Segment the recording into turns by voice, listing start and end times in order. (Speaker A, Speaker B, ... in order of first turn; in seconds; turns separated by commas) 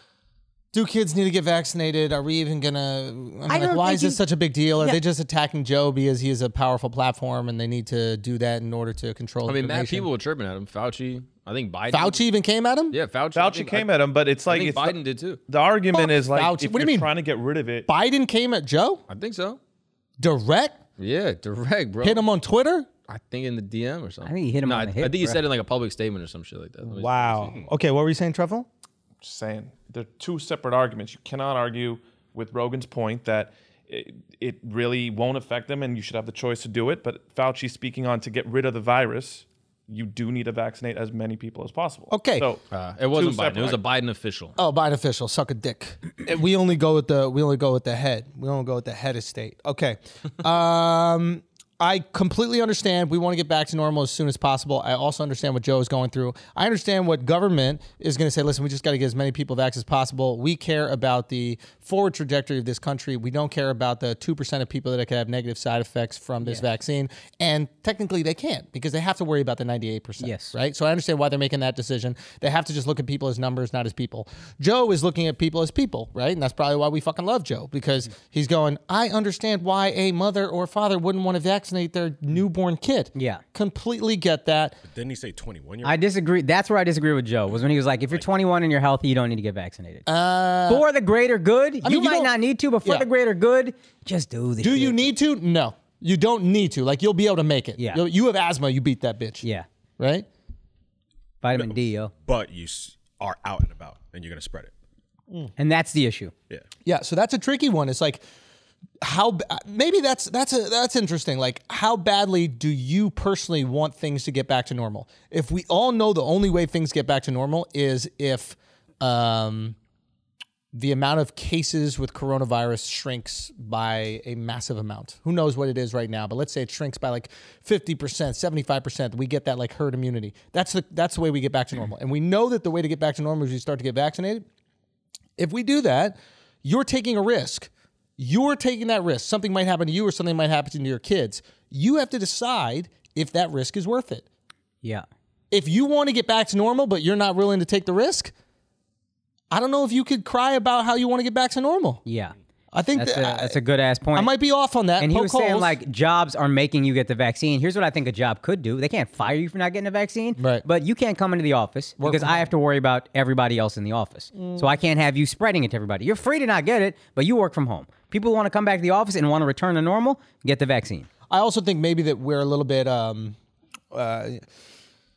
Speaker A: 0.7-10.1, Speaker B: 3.5-4.2, Speaker C: 9.4-12.2, Speaker A: 11.9-13.0, Speaker C: 12.9-13.9, Speaker D: 13.3-17.9, Speaker C: 14.4-15.4, Speaker A: 15.9-17.1, Speaker A: 17.9-19.0, Speaker C: 19.1-19.6, Speaker A: 20.2-20.8, Speaker C: 21.0-22.2, Speaker A: 22.0-22.9, Speaker C: 23.1-27.5, Speaker B: 24.2-25.4, Speaker A: 26.8-28.7, Speaker D: 29.2-43.8, Speaker A: 42.1-42.5, Speaker C: 42.7-44.5, Speaker A: 44.5-84.8, Speaker B: 70.2-70.5, Speaker B: 83.1-83.4, Speaker E: 84.8-86.0, Speaker B: 85.8-90.0, Speaker A: 90.0-90.8, Speaker B: 90.7-95.1, Speaker A: 91.8-92.3, Speaker A: 94.6-99.4, Speaker B: 97.8-98.0, Speaker A: 100.0-100.2, Speaker B: 101.4-102.1, Speaker E: 102.3-104.7, Speaker B: 105.6-106.3, Speaker A: 106.8-108.2, Speaker A: 109.0-119.8, Speaker A: 120.7-134.4, Speaker A: 135.4-144.2, Speaker A: 145.5-148.3, Speaker A: 149.5-152.0, Speaker B: 152.0-152.3, Speaker A: 152.7-153.6, Speaker B: 152.9-154.3, Speaker A: 154.1-155.8, Speaker B: 155.0-171.1, Speaker A: 160.4-160.6, Speaker A: 162.0-162.5, Speaker A: 164.3-164.7, Speaker A: 171.3-173.3, Speaker A: 173.9-174.4